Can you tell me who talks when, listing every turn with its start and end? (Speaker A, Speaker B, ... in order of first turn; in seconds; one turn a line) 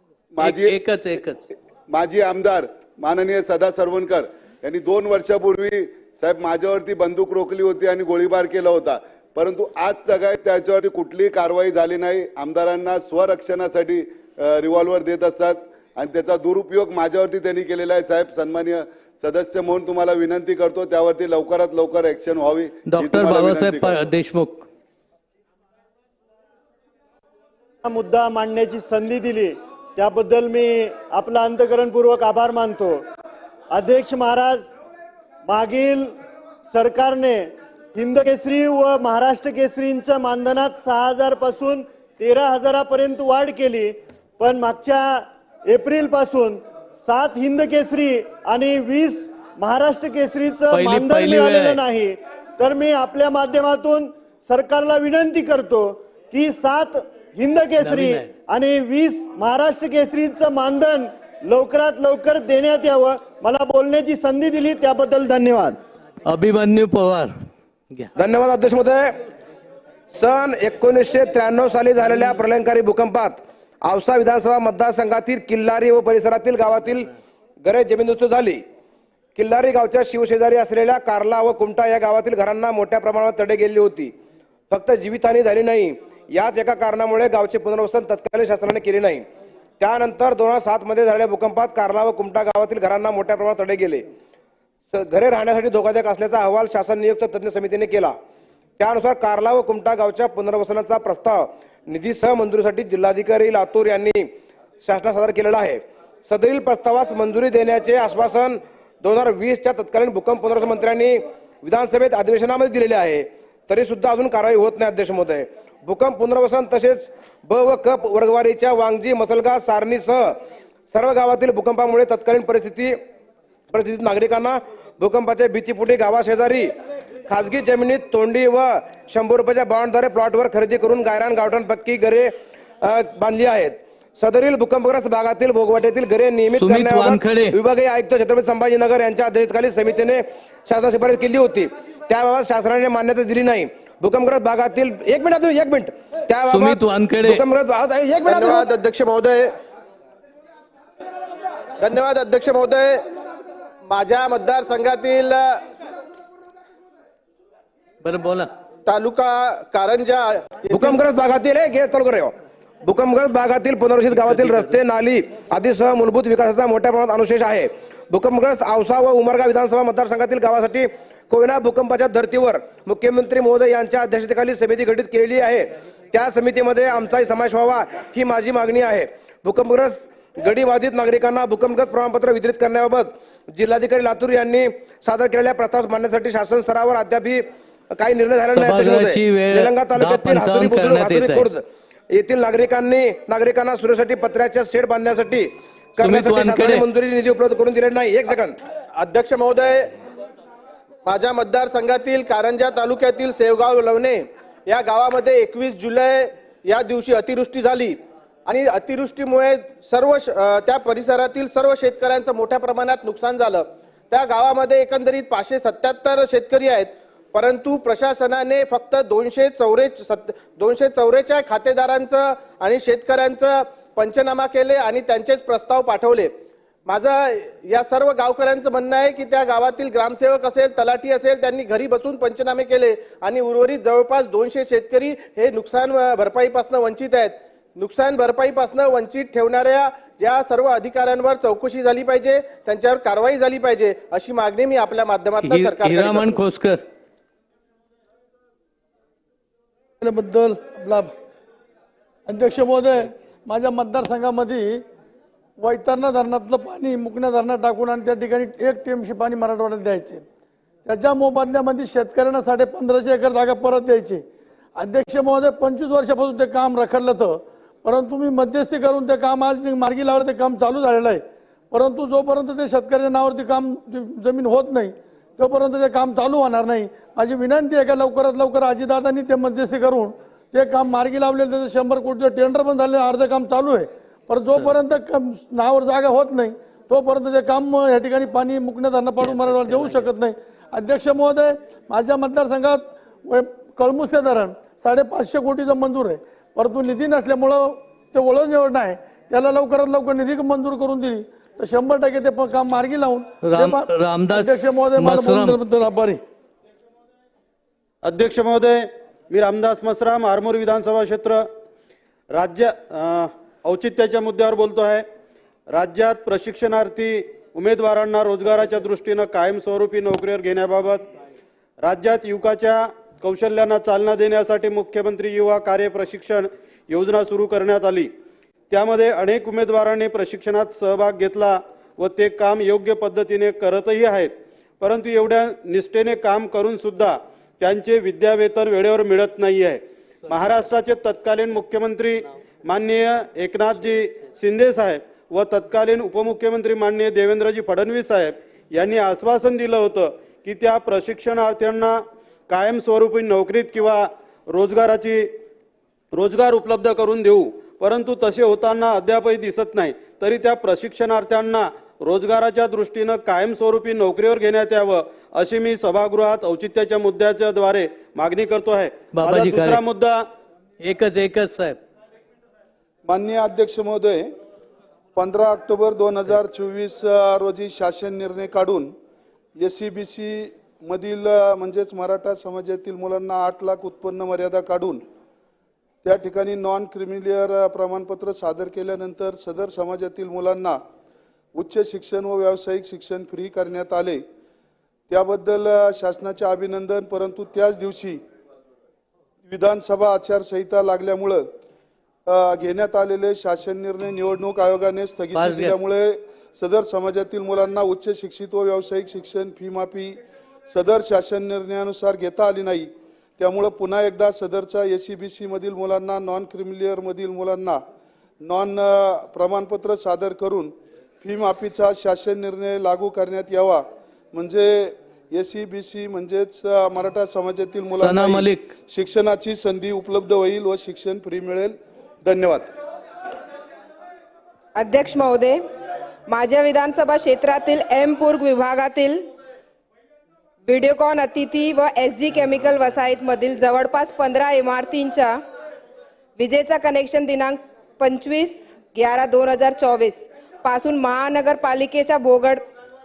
Speaker A: 0.3-0.8
Speaker B: 0.4-1.4
Speaker A: 1.9-24.0
Speaker B: 22.9-24.7
Speaker C: 27.8-33.0
Speaker C: 33.7-34.7
Speaker C: 35.4-36.1
Speaker C: 36.7-65.8
Speaker B: 50.7-51.8
Speaker B: 57.8-58.3
Speaker B: 66.2-67.3
Speaker D: 68.2-69.2
Speaker D: 70.1-78.6
Speaker D: 79.3-84.1
Speaker D: 84.7-89.3
Speaker D: 89.8-94.1
Speaker D: 94.9-98.2
Speaker D: 98.8-104.3
Speaker D: 104.8-123.0
Speaker D: 123.7-148.7
Speaker B: 136.6-137.6
Speaker B: 146.5-147.4
Speaker E: 148.2-149.5
Speaker E: 151.8-153.1
Speaker E: 153.8-155.6
Speaker B: 158.0-158.5
Speaker E: 158.8-161.0
Speaker D: 160.7-198.6
Speaker B: 188.5-191.5
Speaker B: 196.0-196.8
Speaker E: 198.9-199.9
Speaker E: 201.0-226.3
Speaker E: 226.8-246.4
Speaker B: 245.4-246.8
Speaker F: 250.0-251.1
Speaker F: 252.3-254.8
Speaker F: 255.6-260.2
Speaker F: 260.8-264.2
Speaker F: 264.8-306.2
Speaker B: 303.4-305.6
Speaker G: 308.0-311.5
Speaker G: 312.3-315.1
Speaker G: 315.7-321.1
Speaker G: 321.8-328.1
Speaker G: 328.7-355.4
Speaker G: 356.1-370.3
Speaker B: 369.1-369.8
Speaker B: 370.8-371.8
Speaker H: 373.1-374.3
Speaker H: 375.1-378.9
Speaker H: 379.6-385.0
Speaker H: 386.0-390.8
Speaker H: 391.5-394.2
Speaker H: 395.1-398.2
Speaker H: 399.4-401.5
Speaker H: 402.2-410.2
Speaker B: 405.3-405.8
Speaker H: 410.7-417.8
Speaker H: 418.4-432.7
Speaker B: 428.0-428.7
Speaker I: 434.8-435.6
Speaker I: 436.3-439.3
Speaker I: 440.6-445.4
Speaker I: 446.4-452.6